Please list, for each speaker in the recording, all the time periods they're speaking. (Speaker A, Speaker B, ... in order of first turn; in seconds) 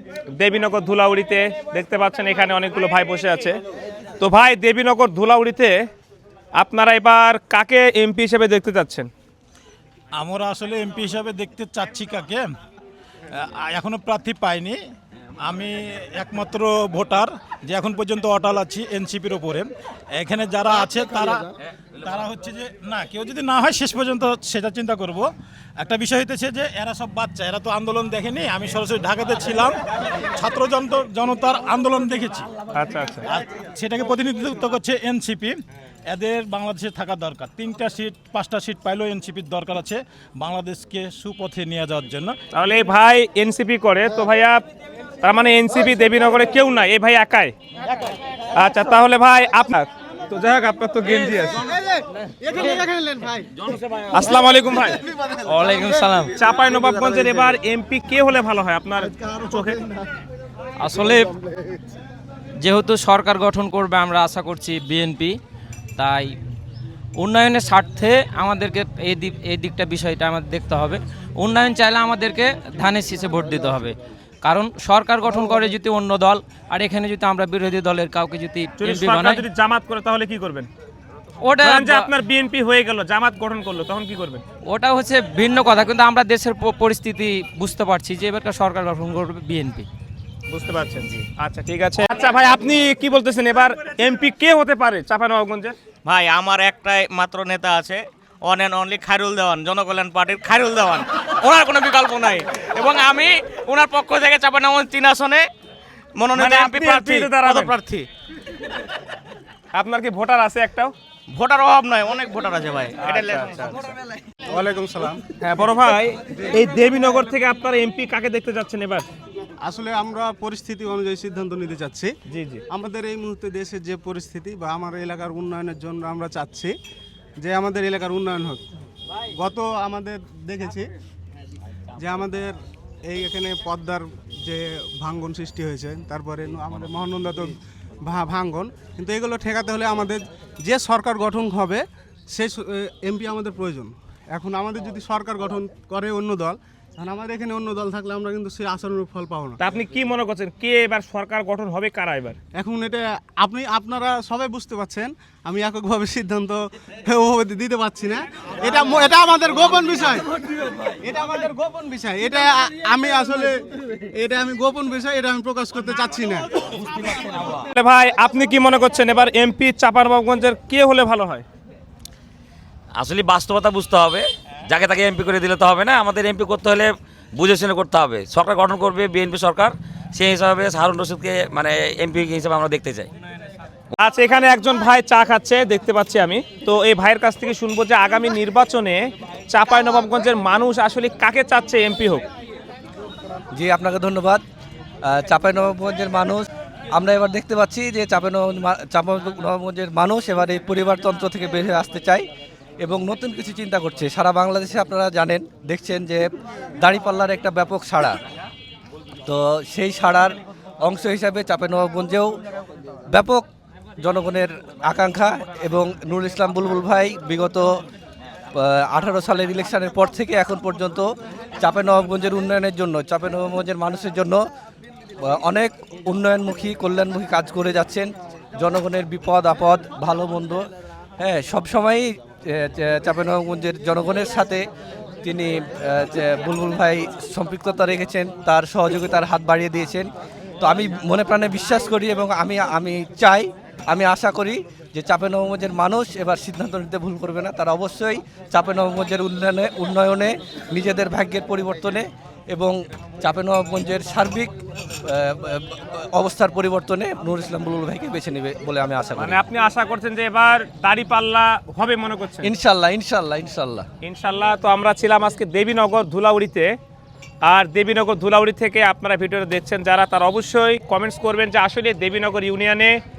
Speaker A: 0.4-3.5, 4.2-5.8, 6.6-9.1, 32.7-33.2, 42.5-44.6, 45.2-47.5, 48.5-51.6, 54.1-55.0, 56.3-59.8, 78.8-80.7, 81.6-84.4, 90.5-95.7, 106.3-107.7, 109.7-110.9, 113.0-113.9, 115.4-119.0, 122.3-122.6, 149.6-152.4, 167.5-171.4, 184.0-192.2, 259.2-262.5, 264.0-266.7, 267.4-272.9
Speaker B: 10.1-12.4, 13.3-14.8, 15.4-21.5, 22.0-29.8, 30.3-32.5, 33.2-42.4
Speaker C: 51.1-53.7, 54.9-55.8, 114.5-115.2, 119.6-122.1, 122.7-126.7, 127.4-128.6, 129.3-130.9, 132.0-132.5, 133.1-149.6, 152.5-163.5, 164.1-167.1
Speaker D: 55.5-56.3, 60.8-61.4, 62.6-65.4, 66.0-66.3, 67.2-79.4, 81.4-82.1, 84.7-89.8
Speaker E: 96.1-105.4, 106.2-108.0, 111.3-113.5
Speaker F: 172.9-183.1
Speaker G: 193.5-194.4, 195.0-202.2, 202.8-206.3, 206.8-208.2, 209.2-212.3, 213.1-213.4, 214.0-217.7, 218.6-221.1, 221.6-224.4, 225.2-228.1, 228.6-230.6, 231.2-234.6, 235.2-240.1, 240.6-254.5, 255.0-259.4, 262.4-263.9